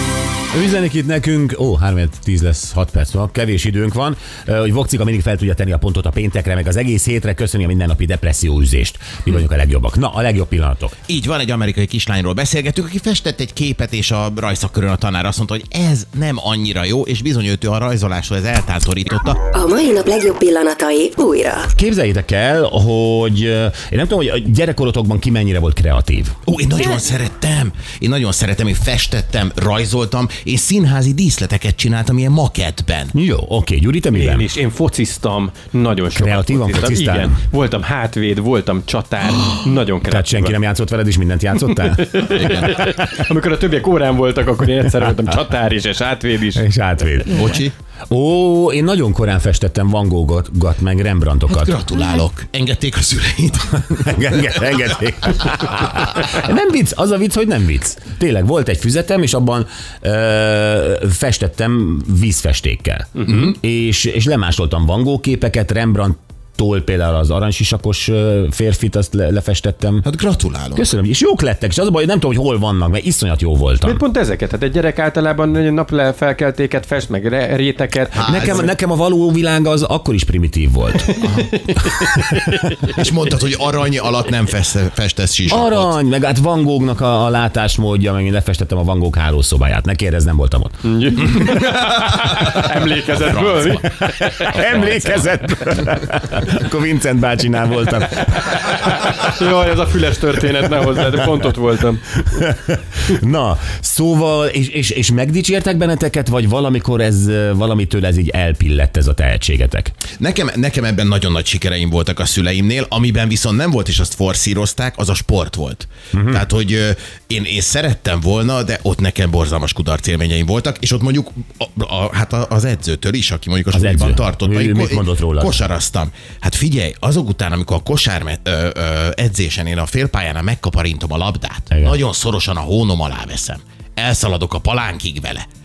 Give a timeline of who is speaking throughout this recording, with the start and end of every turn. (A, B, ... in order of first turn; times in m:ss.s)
0:00.5-0:11.0 A
0:11.1-0:19.4 B
0:19.5-0:21.7 C
0:21.7-0:26.4 A
0:26.5-0:33.1 B
0:33.1-0:34.5 A
0:34.1-0:40.6 D
0:36.1-0:37.4 A
0:40.1-0:42.7 A
0:41.7-0:46.7 D
0:42.3-0:42.8 B
0:46.6-0:47.6 A
0:47.3-0:47.7 B
0:48.1-0:51.8 A
0:51.5-0:54.5 B
0:53.9-1:10.1 A
1:10.0-1:10.8 B
1:10.7-1:14.0 A
1:13.8-1:18.6 D
1:18.2-1:18.7 B
1:18.2-1:21.3 A
1:21.2-1:21.6 B
1:21.2-1:22.9 D
1:22.0-1:22.9 A
1:22.9-1:25.9 B
1:25.5-1:31.5 A
1:30.8-1:35.2 D
1:33.0-1:34.0 B
1:34.0-1:39.2 A
1:34.5-1:35.1 B
1:38.6-1:42.1 D
1:42.3-1:49.9 A
1:50.2-2:15.4 B
1:56.1-1:56.4 A
2:03.7-2:05.6 A
2:11.7-2:12.0 A